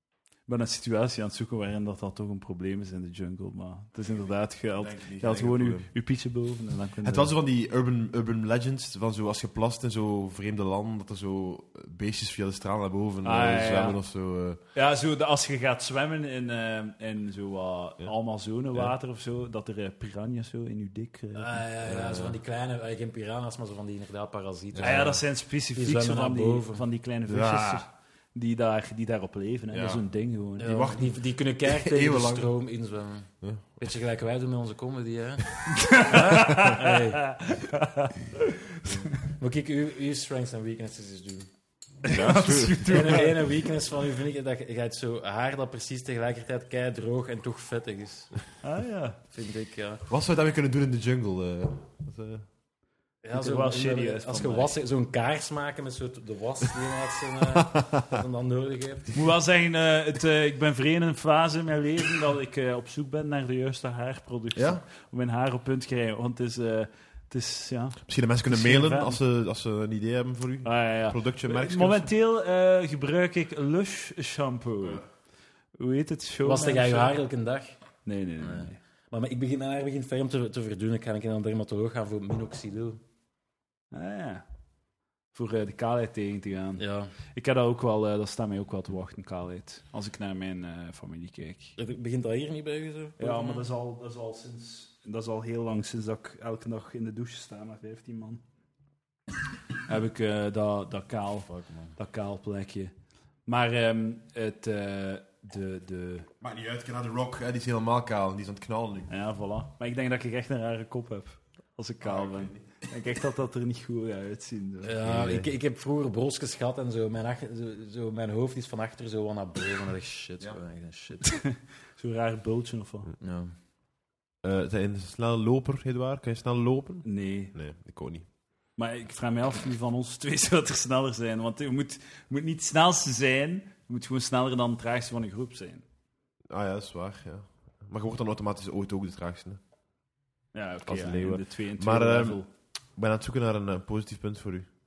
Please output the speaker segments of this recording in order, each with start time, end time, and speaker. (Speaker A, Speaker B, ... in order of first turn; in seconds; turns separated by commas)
Speaker A: 0.4-7.3, Speaker B: 4.8-5.9, Speaker B: 7.0-14.6, Speaker A: 13.2-21.6, Speaker C: 21.4-26.8, Speaker B: 21.8-22.4, Speaker B: 24.8-25.1, Speaker A: 24.8-30.7, Speaker B: 27.3-27.8, Speaker B: 29.7-30.0, Speaker B: 30.6-32.5, Speaker C: 30.6-37.5, Speaker B: 33.4-33.7, Speaker A: 35.8-38.1, Speaker B: 36.5-36.7, Speaker C: 39.2-41.5, Speaker A: 42.0-43.4, Speaker B: 42.1-43.3, Speaker C: 42.9-48.6, Speaker A: 48.6-49.2, Speaker C: 49.3-50.0, Speaker B: 50.1-52.5, Speaker C: 53.2-59.2, Speaker A: 53.3-54.7, Speaker B: 57.5-58.1, Speaker A: 59.1-69.2, Speaker B: 64.5-64.8, Speaker B: 68.0-72.1, Speaker A: 70.6-75.0, Speaker A: 75.7-77.1, Speaker C: 76.4-77.8, Speaker A: 78.0-78.8, Speaker C: 78.4-83.0, Speaker A: 83.9-84.5, Speaker A: 85.3-91.8, Speaker C: 86.8-87.1, Speaker C: 91.8-93.7, Speaker A: 93.2-98.4, Speaker A: 99.9-102.9, Speaker C: 101.5-101.9, Speaker A: 103.5-106.3, Speaker B: 106.4-109.1, Speaker A: 109.1-115.0, Speaker B: 112.0-112.9, Speaker C: 114.8-121.6, Speaker B: 115.0-115.5, Speaker A: 121.2-123.1, Speaker C: 123.2-123.5, Speaker B: 124.4-128.3, Speaker A: 127.0-127.5, Speaker A: 128.7-135.8, Speaker B: 136.5-139.6, Speaker A: 140.5-142.5, Speaker B: 140.8-144.7